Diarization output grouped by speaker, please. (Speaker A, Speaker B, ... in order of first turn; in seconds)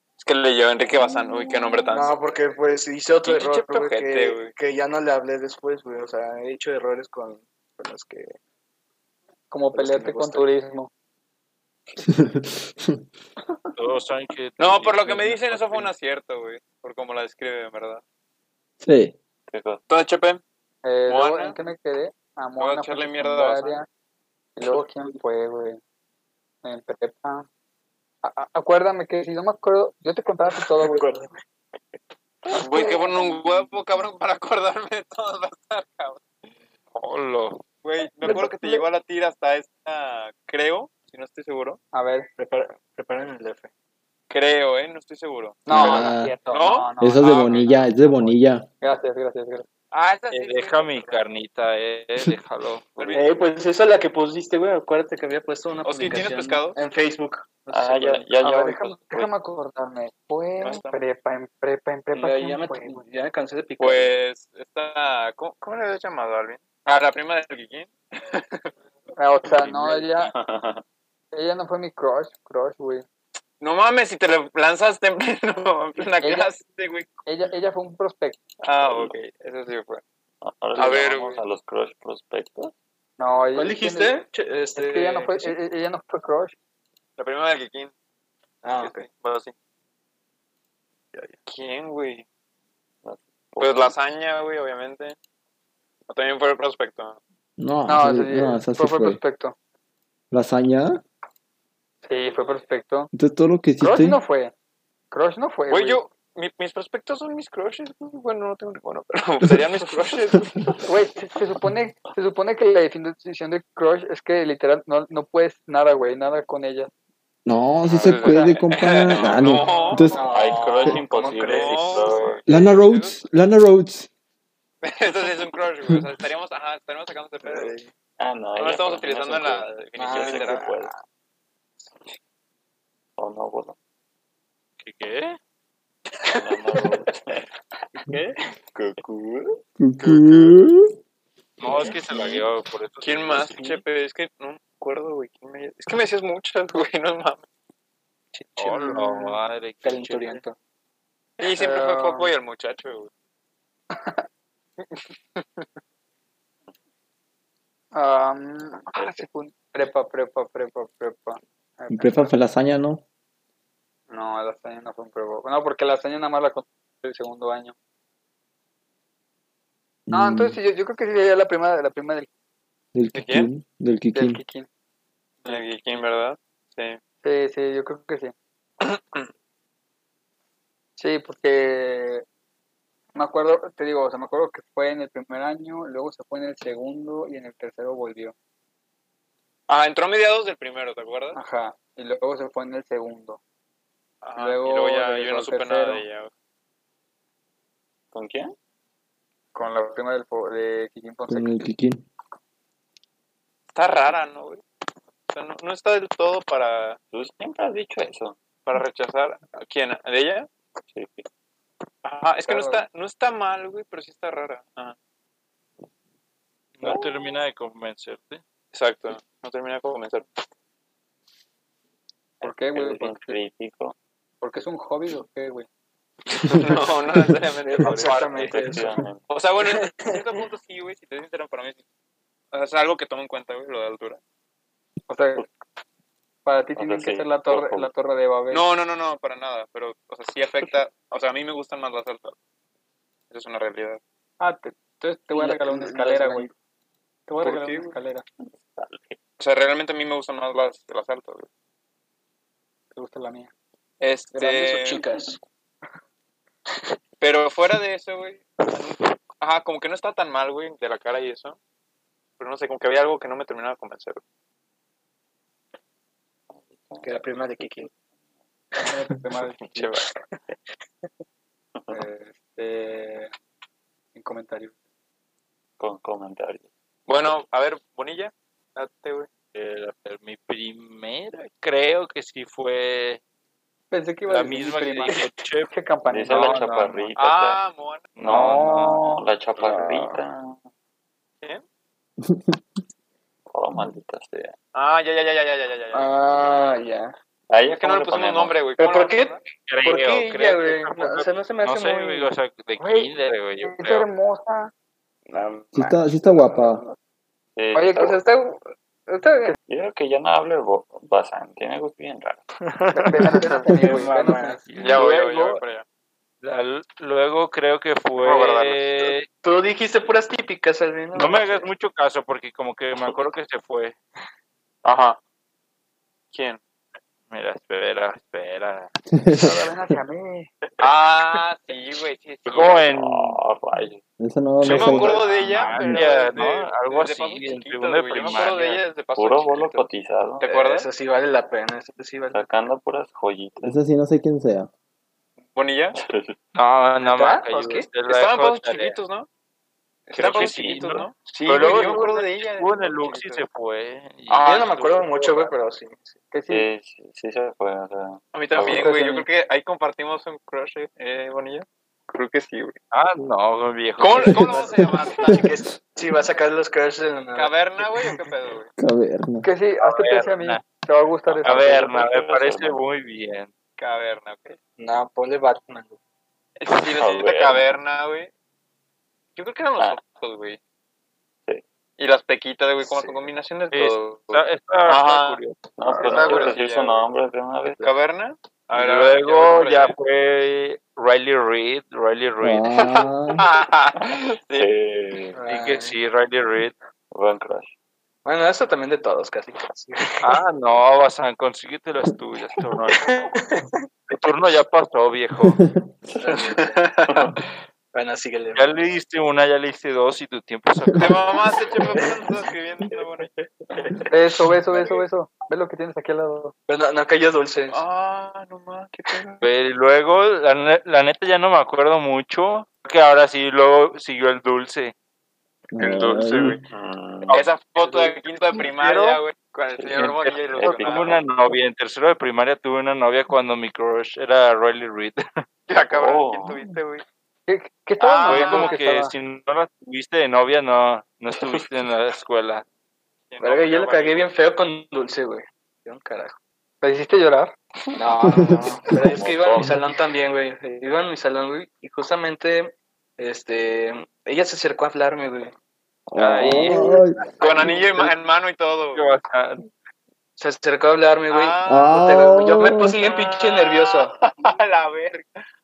Speaker A: 0.2-2.1, 3.2-4.5, 14.6-18.0, 19.9-20.4, 21.1-21.6, 22.6-23.8, 32.5-36.2, 37.8-41.8, 44.3-47.7, 49.9-51.2, 53.0-53.4, 55.8-56.8, 60.6-61.0, 63.8-68.7, 73.6-77.1, 78.6-80.0, 80.8-81.4, 87.2-87.9, 88.8-89.5, 91.5-92.2, 93.6-95.2, 96.1-97.2, 105.7-110.7, 117.9-120.2, 121.4-123.2, 124.8-127.8, 128.6-130.7, 140.0-140.6, 141.7-142.4, 143.0-147.4, 151.4-153.1, 154.8-155.7, 173.1-173.5, 175.4-177.0, 178.8-179.3, 189.7-191.4, 194.2-196.3, 203.7-204.6, 205.3-207.0, 208.7-210.5, 212.0-214.9, 218.7-220.2, 226.4-228.6, 229.3-231.8, 232.5-234.2, 238.5-242.3, 243.3-244.0, 247.4-247.9, 249.4-251.5, 254.0-255.1, 257.2-261.6, 262.4-264.2, 269.6-270.1, 277.1-279.3, 287.1-288.1, 294.7-296.1, 297.7-299.4, 314.8-315.8, 318.2-318.8, 324.8-325.2, 326.3-326.6, 330.8-332.9, 334.6-339.9, 340.4-340.9, 345.5-346.0, 348.1-349.3, 350.1-353.4, 354.3-354.6, 358.3-362.8, 364.0-365.6, 367.3-368.7, 373.8-374.6, 376.6-378.3, 379.4-380.6, 382.0-385.4, 385.9-387.1, 387.8-389.9, 392.7-394.7, 406.5-407.3, 410.9-413.3, 417.7-419.4, 425.8-426.6, 427.3-431.2, 435.7-437.0, 438.0-438.8, 443.3-444.3, 457.4-459.0, 461.3-462.2, 462.8-465.2
Speaker B: 1.9-8.3, 9.7-10.5, 30.5-31.3, 42.4-43.7, 53.1-58.3, 62.1-64.1, 83.5-85.5, 88.6-89.0, 119.7-122.2, 127.4-127.9, 130.0-131.0, 137.9-138.3, 148.3-150.6, 227.6-229.0, 229.6-230.3, 245.3-246.5, 254.3-255.4, 267.0-267.9, 289.6-290.2, 295.9-297.1, 298.8-302.3, 305.3-306.9, 307.9-309.6, 313.2-314.7, 319.4-321.7, 340.4-342.4, 347.0-347.9, 354.4-356.2, 364.4-368.1, 374.8-376.0, 382.8-383.2, 386.0-386.5, 395.3-396.0, 398.2-400.3, 403.0-403.8, 406.2-407.3, 407.9-408.8, 411.7-414.1, 416.7-417.8, 443.4-446.4, 447.9-455.5, 456.6-458.1, 460.4-464.1
Speaker C: 9.5-10.9, 20.8-23.9, 24.6-25.8, 26.6-27.5, 28.2-31.1, 32.6-33.4, 38.2-38.8, 41.9-42.3, 45.6-49.6, 58.4-63.0, 69.2-70.3, 71.3-73.0, 76.2-76.5, 77.2-78.4, 83.2-84.2, 84.8-86.5, 97.9-99.5, 102.0-103.1, 103.8-104.5, 105.1-106.0, 110.8-116.9, 118.2-118.5, 151.5-152.3, 153.9-154.2, 157.9-162.3, 164.1-167.7, 170.1-172.3, 174.1-174.7, 177.2-178.3, 181.0-182.2, 183.1-188.3, 191.3-193.4, 194.3-196.1, 199.5-201.6, 212.4-212.8, 222.4-223.4, 224.4-225.7, 235.1-235.4, 236.4-238.7, 244.4-246.5, 247.3-248.2, 252.9-253.5, 268.8-269.9, 271.9-273.3, 274.1-274.7, 283.9-286.5, 302.8-304.7, 307.7-308.1, 312.9-315.5, 329.3-330.5, 356.3-356.7, 358.6-359.3, 369.4-371.9, 414.1-416.5, 437.5-439.1, 446.8-447.5
Speaker D: 12.0-13.0, 18.8-19.1, 45.7-46.3, 47.0-48.7, 97.6-99.2, 100.3-101.0, 103.1-104.2, 117.4-120.2, 122.5-124.1, 139.8-140.9, 161.9-163.0, 170.1-170.6, 172.9-174.4, 201.3-202.0, 292.2-292.6, 305.7-306.8, 329.1-329.9, 334.2-335.2, 343.6-344.7, 368.8-369.5, 392.4-393.4, 405.4-405.8, 425.7-426.6, 448.3-448.8, 456.1-457.2, 461.7-462.9
Speaker E: 13.8-15.9, 36.9-37.6, 50.3-53.1, 134.8-135.4, 141.6-143.7, 148.6-150.4, 216.8-218.4, 279.5-283.2, 284.3-285.7, 286.3-287.1, 288.2-289.2, 299.7-304.1, 314.7-315.6, 316.4-319.3, 321.1-323.9, 327.3-328.9, 332.4-333.4, 334.6-338.8, 346.5-349.0, 350.1-355.5, 362.9-364.6, 369.8-370.6, 371.4-373.5, 383.7-386.4, 388.7-392.8, 395.5-396.7, 400.2-403.2, 404.1-405.6, 408.6-411.6, 419.4-424.9, 427.3-429.1, 429.9-435.4, 438.2-442.6, 456.1-456.9, 458.9-459.7
Speaker F: 19.5-19.8, 57.7-59.3, 69.5-70.8, 78.8-79.1, 80.4-82.7, 93.0-94.0, 120.3-122.5, 128.2-130.9, 133.2-133.8, 136.3-137.4, 138.7-139.6, 198.1-198.5, 207.1-208.4, 210.9-211.2, 222.4-223.9, 228.4-229.2, 236.8-237.9, 248.4-249.2, 266.5-267.2, 275.8-276.7, 286.1-287.6, 288.2-290.6, 293.5-294.6, 297.5-298.6, 307.6-308.2, 309.7-312.4, 332.9-334.0, 339.1-340.4, 342.3-343.8, 345.9-346.4, 356.5-358.9, 371.3-372.8, 376.9-377.7, 385.8-387.9, 394.6-395.4, 397.1-397.7, 426.7-427.4, 429.8-431.2, 435.9-436.6, 448.9-449.8